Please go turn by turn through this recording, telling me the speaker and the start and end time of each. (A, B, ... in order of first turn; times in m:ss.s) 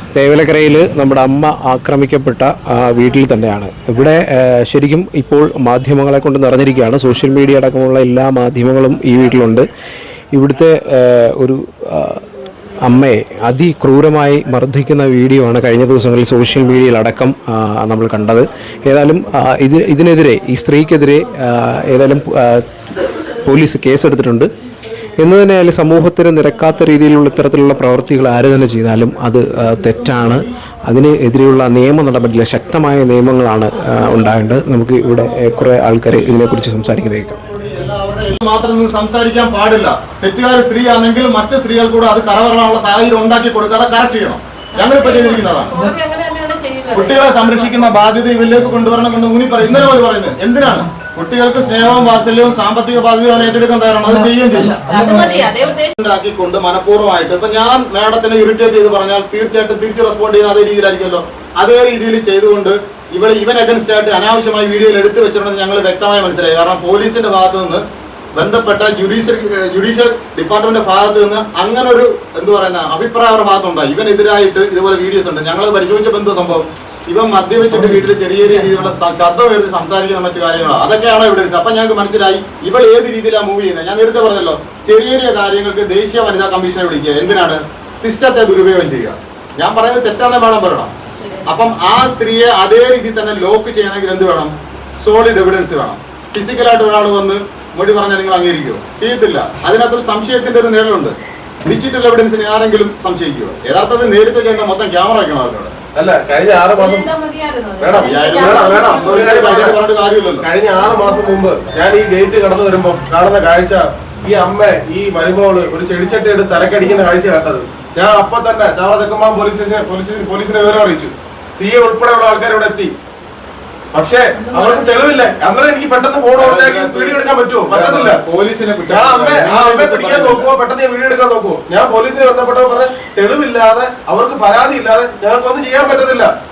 0:00.1-0:09.6 A
0:10.3-0:12.2 A
0:12.8-0:22.6 A
0:23.4-0:24.5 A
0:25.2-0:37.4 A
0:37.4-0:45.7 B
0:44.8-0:47.9 C
0:46.9-0:54.8 B
0:54.8-0:56.0 C
0:56.0-1:07.8 B
1:08.3-1:30.9 B
1:31.4-1:41.1 B
1:41.6-1:45.7 B
1:45.9-1:47.1 D
1:46.7-1:49.5 C
1:47.8-1:49.8 D
1:48.0-1:50.5 B
1:50.4-2:02.9 D
2:03.9-2:08.2 D
2:04.4-2:05.3 C
2:06.3-2:10.5 B
2:08.9-2:16.3 D